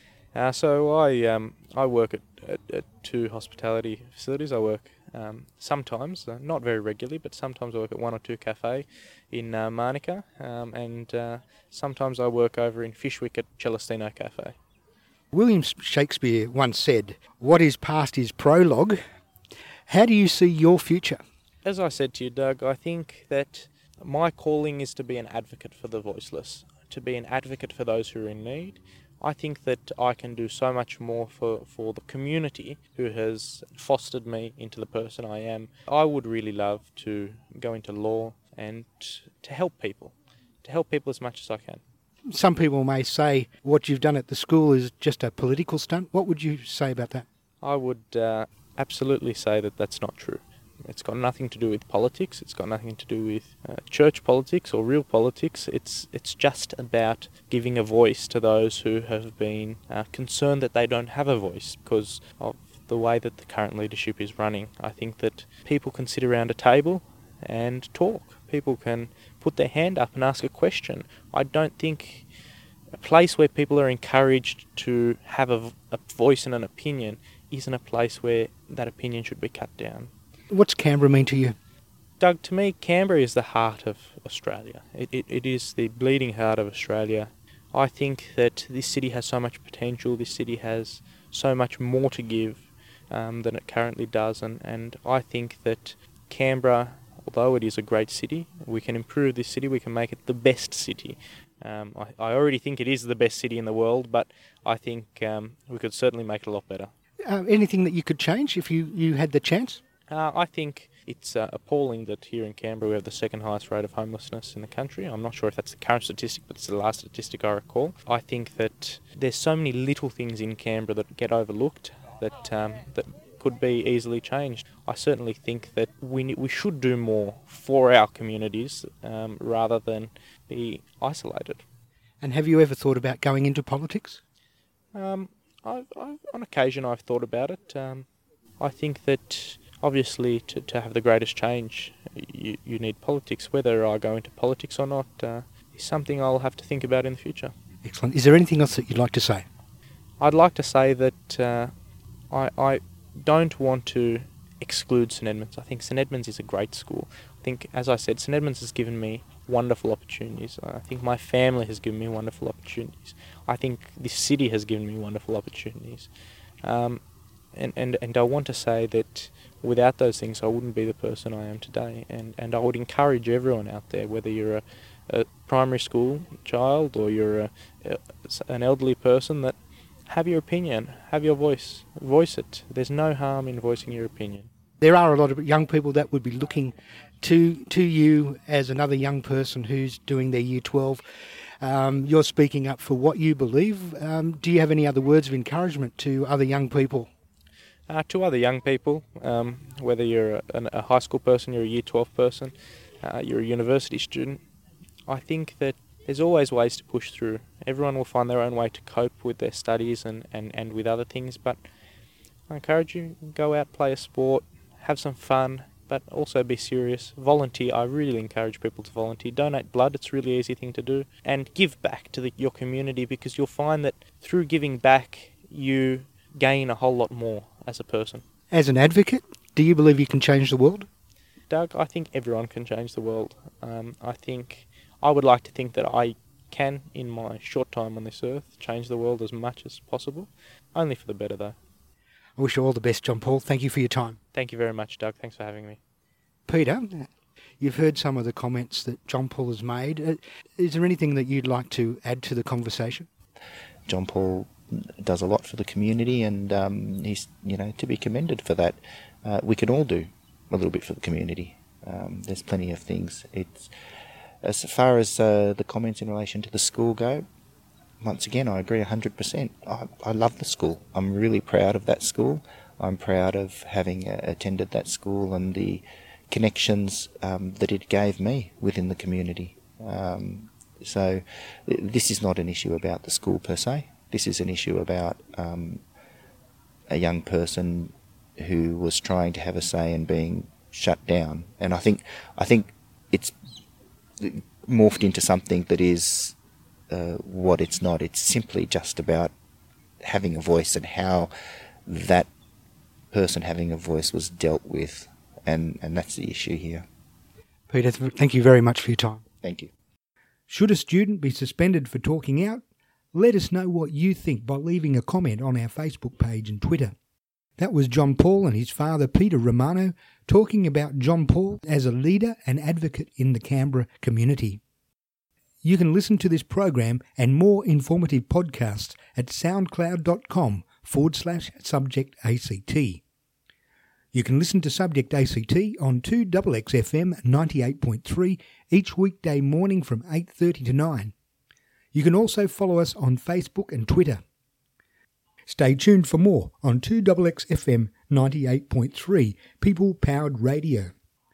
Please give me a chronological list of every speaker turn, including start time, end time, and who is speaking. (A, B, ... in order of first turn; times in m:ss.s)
0:00.3-0:14.6 A
0:15.3-0:19.0 B
0:19.9-0:21.2 B
0:21.6-0:41.8 A
0:42.3-0:47.2 B
0:47.6-1:12.3 A
1:12.9-1:20.1 A
1:20.5-1:21.6 B
1:22.2-1:46.9 A
1:47.2-1:49.8 B
1:50.1-2:11.6 A
2:12.2-2:14.2 B
2:14.9-2:18.1 A
2:18.6-2:27.5 A
2:27.8-2:29.4 B
2:30.2-2:31.7 A
2:32.3-2:46.1 A
2:46.6-2:47.0 A
2:47.5-2:59.6 A
3:00.1-3:04.5 A
3:04.8-3:17.1 B
3:17.9-3:24.4 A
3:25.1-3:31.6 A
3:32.5-3:48.2 A
3:48.5-3:50.9 B
3:51.5-4:01.6 A
4:02.4-4:04.2 B
4:04.3-4:05.8 A
4:06.5-4:13.1 B
4:13.9-4:23.7 C
4:24.4-4:27.2 C
4:28.0-4:45.8 C
4:46.9-4:53.3 C
4:54.2-4:56.3 C
4:56.9-4:59.3 C
5:00.0-5:01.3 C
5:01.8-5:02.3 C
5:03.1-5:06.8 C
5:07.7-5:09.2 B
5:09.4-5:09.7 C
5:10.5-5:12.6 B
5:13.1-5:16.9 B
5:17.6-5:24.6 B
5:25.6-5:33.0 B
5:34.1-5:41.1 B
5:41.9-5:44.2 B
5:45.4-5:50.9 B